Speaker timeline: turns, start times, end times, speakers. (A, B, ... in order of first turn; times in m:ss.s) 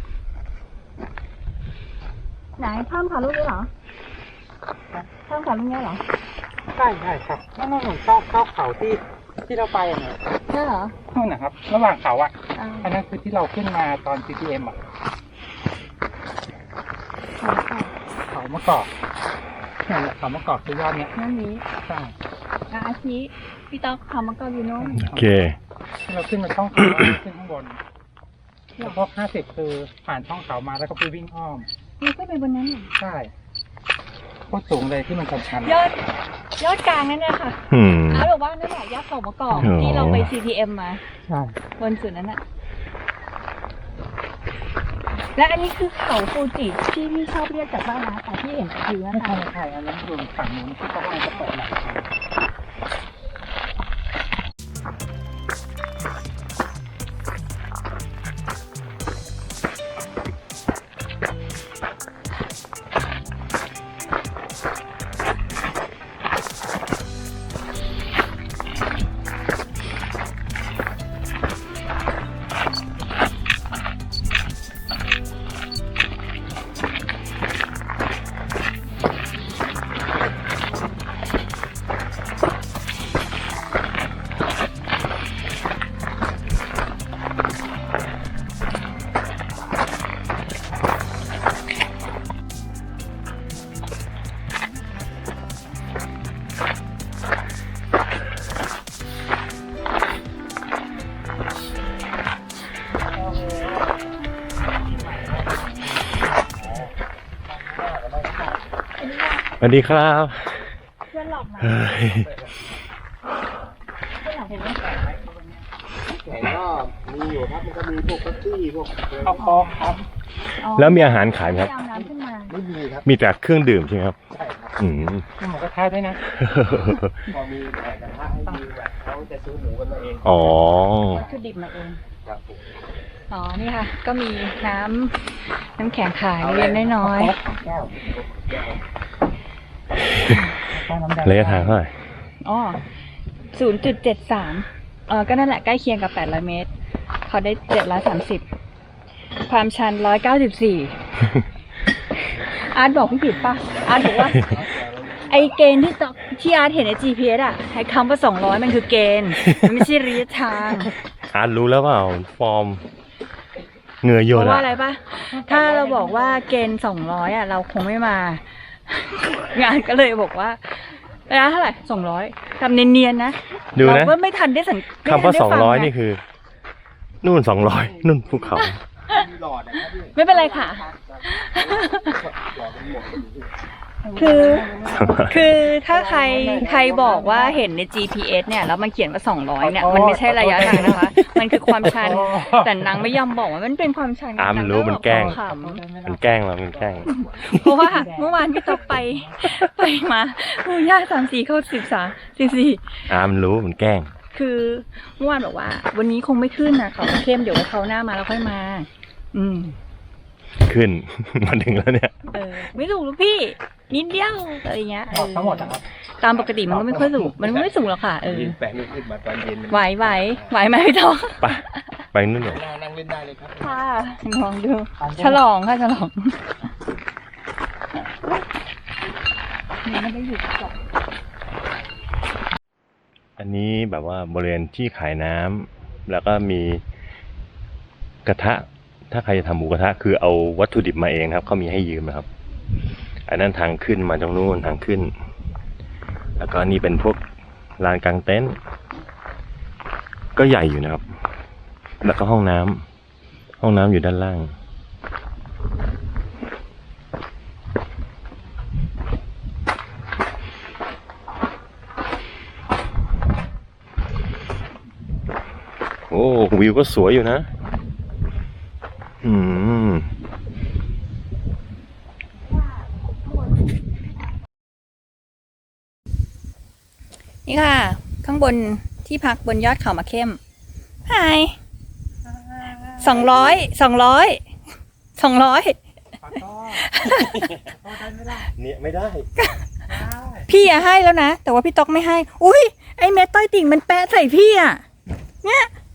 0:02.6-0:03.7 A
0:05.1-0:06.0 A
0:06.7-0:10.2 B
0:10.5-0:11.0 A
0:11.1-0:14.8 B
0:12.5-0:12.9 A
0:17.4-0:17.9 A
0:18.3-0:18.9 B
0:19.8-0:21.1 B
0:21.1-0:21.6 A
0:21.7-0:22.1 B
0:22.7-0:25.0 A
0:24.8-0:25.3 B
0:25.0-0:25.6 C
0:26.0-0:27.8 B
0:28.8-0:31.7 B
0:32.0-0:32.9 A
0:33.0-0:33.3 B
0:34.5-0:35.8 B
0:35.6-0:36.0 A
0:36.6-0:41.0 A
0:37.7-0:38.3 C
0:39.5-0:40.3 C
0:41.2-0:41.6 B
0:41.8-0:42.4 A
0:45.3-0:49.4 A
0:49.1-0:52.1 B
0:50.9-0:51.5 A
1:43.1-1:44.0 D
1:45.0-1:46.9 D
1:47.5-1:48.6 D
1:49.0-1:49.5 A
1:49.6-1:50.6 C
1:51.1-1:51.8 A
1:51.6-1:52.3 C
1:52.1-1:52.5 D
1:54.2-1:54.8 A
1:54.5-1:55.6 B
1:56.1-1:59.5 D
1:59.2-2:00.0 B
1:59.4-1:59.8 A
2:00.6-2:02.5 A
2:00.7-2:01.7 C
2:01.9-2:03.0 D
2:03.0-2:04.2 C
2:04.3-2:05.0 D
2:04.8-2:05.2 C
2:05.4-2:06.2 B
2:06.4-2:07.2 C
2:07.3-2:11.4 D
2:10.2-2:11.2 C
2:11.1-2:12.0 A
2:12.2-2:12.7 D
2:13.3-2:17.3 A
2:16.4-2:18.8 D
2:17.0-2:17.5 B
2:20.2-2:21.8 B
2:21.2-2:21.9 C
2:22.4-2:22.8 A
2:23.5-2:26.7 A
2:27.2-2:28.5 A
2:29.4-2:31.0 A
2:32.6-2:34.6 A
2:33.7-2:35.7 D
2:35.3-2:40.9 A
2:41.3-2:42.8 C
2:44.0-2:44.7 C
2:44.3-2:55.9 A
2:45.3-2:46.4 B
2:53.7-2:54.2 C
2:55.0-2:56.2 C
2:57.2-2:58.8 C
2:57.7-3:03.5 D
2:58.5-2:59.2 A
3:00.1-3:02.2 A
3:04.0-3:07.6 B
3:04.2-3:15.8 A
3:09.6-3:13.2 B
3:14.4-3:15.4 C
3:15.0-3:16.2 B
3:16.0-3:17.1 C
3:16.6-3:18.1 D
3:17.1-3:23.1 A
3:17.7-3:19.4 B
3:23.1-3:24.1 C
3:24.3-3:29.8 A
3:30.6-3:32.3 C
3:32.3-3:38.6 A
3:35.1-3:35.8 B
3:36.3-3:40.6 D
3:39.7-3:42.0 A
3:41.4-3:42.6 C
3:42.4-3:44.0 D
3:43.6-3:46.4 A
3:45.0-3:45.4 B
3:49.8-3:50.7 A
3:53.4-3:56.8 C
3:58.2-4:02.3 C
4:03.3-4:05.1 C
4:06.4-4:07.2 C
4:07.8-4:08.6 C
4:10.4-4:11.0 C
4:12.0-4:12.8 C
4:13.6-4:14.5 C
4:26.1-4:27.5 C
4:29.2-4:30.1 C
4:37.4-4:40.4 A
4:41.0-4:41.6 A
4:42.3-4:43.4 B
4:43.0-4:44.4 A
4:45.2-4:45.8 A
4:46.2-4:46.9 B
4:46.8-4:47.6 A
4:47.4-4:48.5 B
4:48.6-4:49.3 C
4:49.9-4:50.5 B
4:50.5-4:54.8 A
4:55.4-4:55.7 A